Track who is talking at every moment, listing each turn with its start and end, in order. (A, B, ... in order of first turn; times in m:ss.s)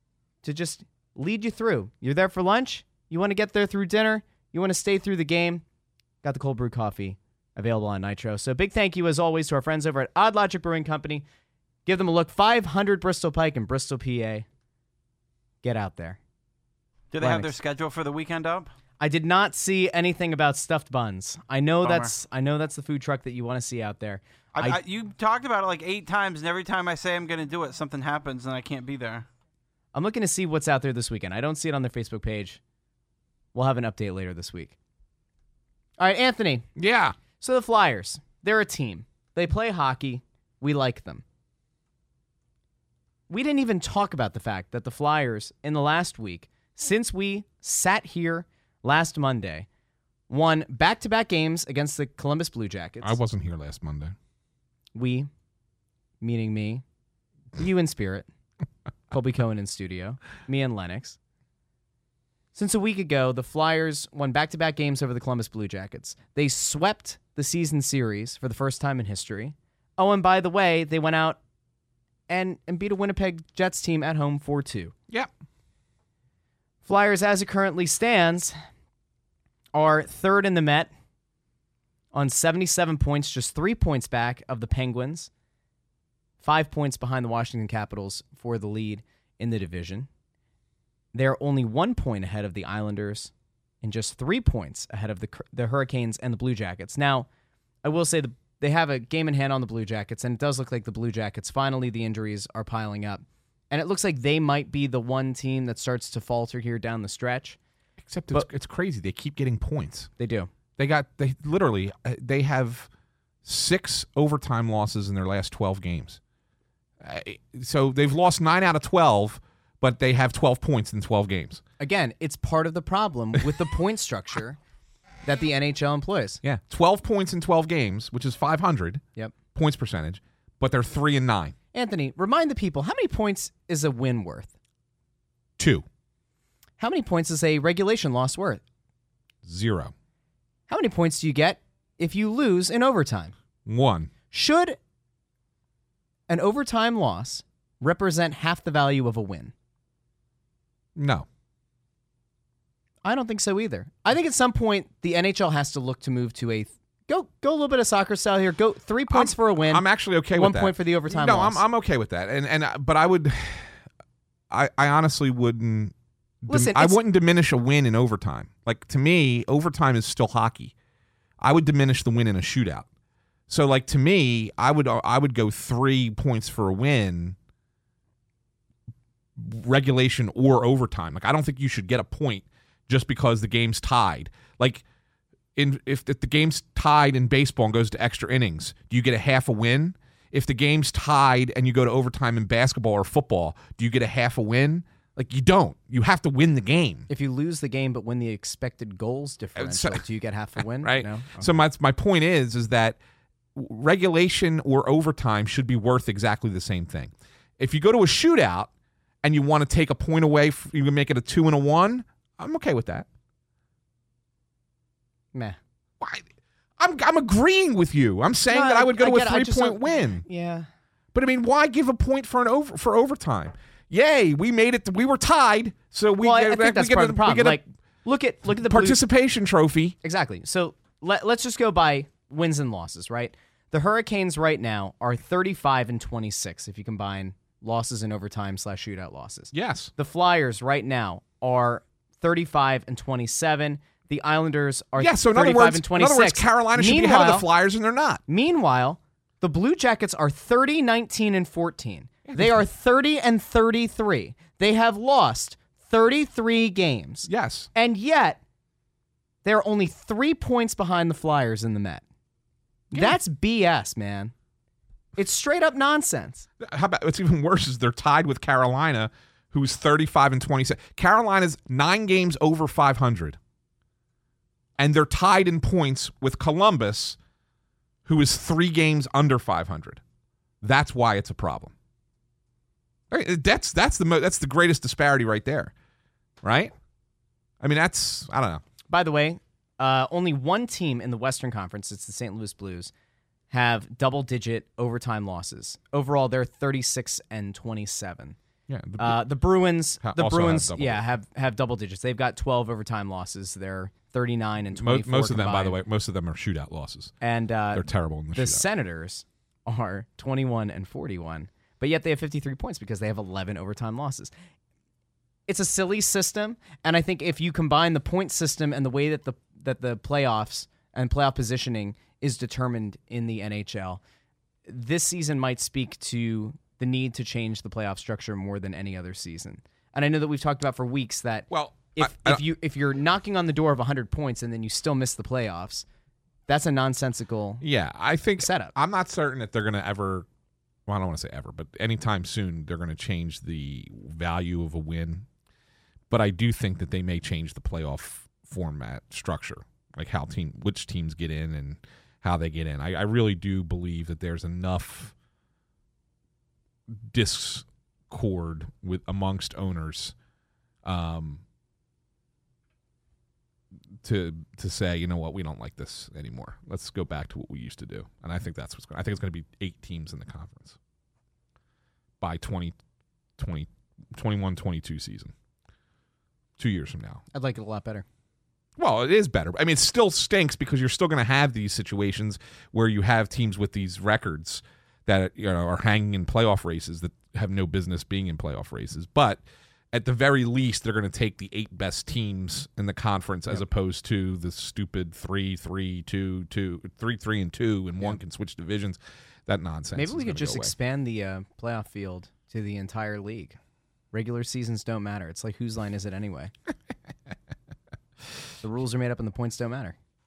0:00.4-0:05.6 A
0:06.2-0:11.2 A
0:11.9-0:14.5 A
0:15.6-0:16.2 A
0:17.1-0:18.7 B
0:17.2-0:17.6 A
0:19.0-0:24.8 A
0:21.8-0:22.1 B
0:24.6-0:29.3 B
0:29.9-0:32.6 A
0:33.5-0:34.8 A
0:36.0-0:36.7 A
0:36.8-0:37.2 C
0:37.4-0:41.2 A
0:43.3-0:49.7 A
0:50.3-0:53.2 A
0:53.0-0:54.2 C
0:55.0-0:55.3 A
0:56.2-0:56.8 A
0:57.6-0:58.3 A
0:59.1-1:01.2 A
1:02.6-1:11.4 A
1:12.3-1:14.9 A
1:16.8-1:18.6 A
1:19.7-1:20.9 A
1:22.1-1:25.3 A
1:26.4-1:30.1 A
1:31.1-1:37.3 A
1:37.8-1:47.6 A
1:48.0-1:50.1 C
1:50.2-1:50.5 A
1:50.8-1:52.9 C
1:53.4-1:56.2 C
1:57.0-2:01.6 C
2:01.8-2:04.6 A
2:05.2-2:06.4 A
2:06.4-2:09.0 C
2:09.6-2:11.6 C
2:11.7-2:14.5 A
2:15.6-2:15.8 C
2:16.8-2:18.6 A
2:19.4-2:19.9 C
2:20.7-2:23.3 A
2:23.7-2:24.1 C
2:24.3-2:24.8 A
2:26.3-2:29.5 A
2:31.0-2:31.3 C
2:33.0-2:41.6 A
2:39.1-2:43.8 C
2:44.5-2:50.7 C
2:46.5-2:47.0 A
2:51.4-2:52.9 C
2:53.5-2:57.4 C
2:59.4-3:04.8 C
3:05.6-3:17.1 C
3:17.1-3:21.5 A
3:19.6-3:20.0 C
3:20.8-3:23.0 C
3:23.6-3:28.7 C
3:29.2-3:33.1 C
3:36.0-3:36.3 C
3:36.8-3:40.2 C
3:38.5-3:40.7 A
3:41.1-3:47.6 C
3:46.2-3:49.0 A
3:48.6-3:50.0 C
3:50.0-4:07.5 A
3:59.5-3:59.9 C
4:05.0-4:08.2 C
4:08.3-4:18.4 A
4:12.3-4:12.6 C
4:17.3-4:17.7 C
4:19.4-4:22.0 A
4:22.9-4:23.2 C
4:22.9-4:24.3 A
4:25.2-4:26.5 A
4:26.6-4:33.4 C
4:34.8-4:37.2 C
4:38.1-4:40.0 C
4:40.6-4:41.7 C
4:43.1-4:45.7 C
4:46.4-4:46.7 C
4:47.6-4:48.6 C
4:48.9-4:52.9 A
4:53.5-4:58.4 A
4:58.7-4:59.2 C
4:59.0-5:05.8 A
5:00.0-5:01.0 C
5:04.7-5:07.1 C
5:07.2-5:14.3 A
5:07.7-5:08.6 C
5:15.5-5:24.0 A
5:24.7-5:35.9 A
5:31.5-5:32.4 C
5:36.5-5:37.6 A
5:37.6-5:40.3 C
5:38.4-5:38.7 A
5:40.9-5:45.3 C
5:46.1-5:55.1 C
5:56.9-6:00.2 C
6:00.8-6:01.4 C
6:04.0-6:10.8 C
6:12.2-6:12.8 C
6:13.4-6:15.3 C
6:16.6-6:17.2 C
6:17.3-6:18.0 A
6:18.8-6:40.7 C
6:39.9-6:43.6 A
6:44.1-6:46.5 A
6:48.6-6:50.0 A